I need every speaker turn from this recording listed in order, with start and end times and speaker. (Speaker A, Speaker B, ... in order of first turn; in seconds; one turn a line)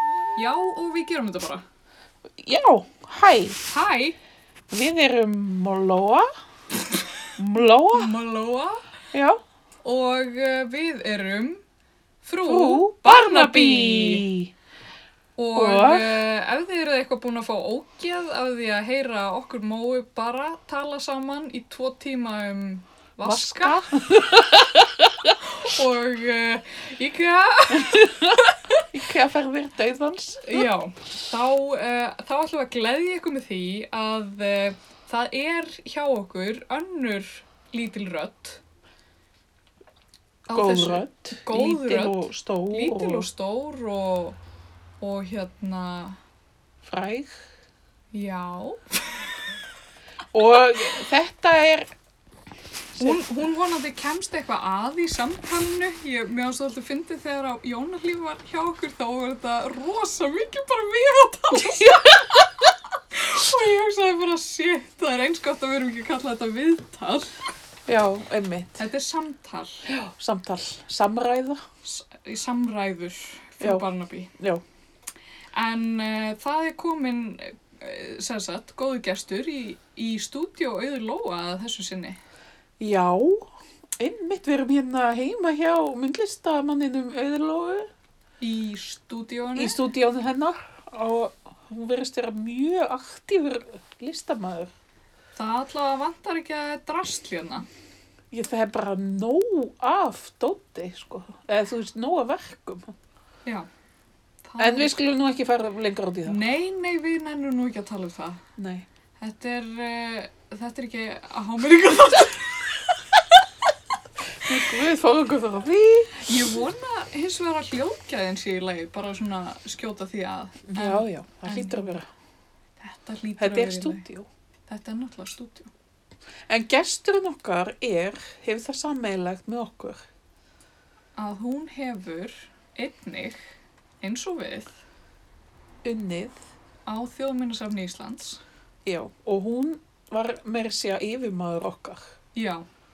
Speaker A: 0.4-1.6
Speaker B: 2.4-3.6
Speaker A: 3.7-4.2
Speaker B: 4.7-6.3
Speaker B: 7.4-8.2
Speaker A: 7.9-8.8
Speaker B: 9.1-9.4
Speaker A: 9.8-11.6
Speaker A: 12.2-14.2
Speaker B: 12.4-14.5
Speaker A: 15.4-23.8
Speaker B: 15.6-16.2
Speaker B: 23.2-25.4
Speaker A: 25.4-28.8
Speaker B: 27.7-30.7
Speaker A: 30.4-38.6
Speaker A: 40.5-44.4
Speaker B: 40.5-43.3
Speaker A: 45.0-46.2
Speaker B: 46.8-47.4
Speaker A: 48.1-49.1
Speaker B: 50.3-51.9
Speaker A: 53.0-62.4
Speaker B: 53.0-53.2
Speaker B: 61.5-62.4
Speaker A: 63.1-67.5
Speaker B: 67.9-68.8
Speaker A: 68.8-69.8
Speaker B: 69.9-71.7
Speaker A: 71.8-74.3
Speaker B: 73.6-73.9
Speaker B: 74.4-74.6
Speaker A: 75.5-82.2
Speaker B: 82.8-87.9
Speaker A: 88.4-89.8
Speaker B: 89.6-94.7
Speaker A: 95.4-97.7
Speaker B: 98.3-103.0
Speaker A: 104.5-104.9
Speaker B: 104.6-106.4
Speaker A: 106.3-108.4
Speaker B: 108.6-108.9
Speaker A: 109.2-113.0
Speaker B: 114.4-116.3
Speaker A: 116.2-121.9
Speaker B: 120.7-122.1
Speaker A: 122.8-124.0
Speaker B: 123.4-124.3
Speaker A: 124.7-125.7
Speaker B: 126.5-130.1
Speaker A: 131.2-133.4
Speaker A: 134.0-134.7
Speaker B: 135.8-136.4
Speaker A: 136.9-138.4
Speaker B: 138.9-142.1
Speaker A: 142.3-142.7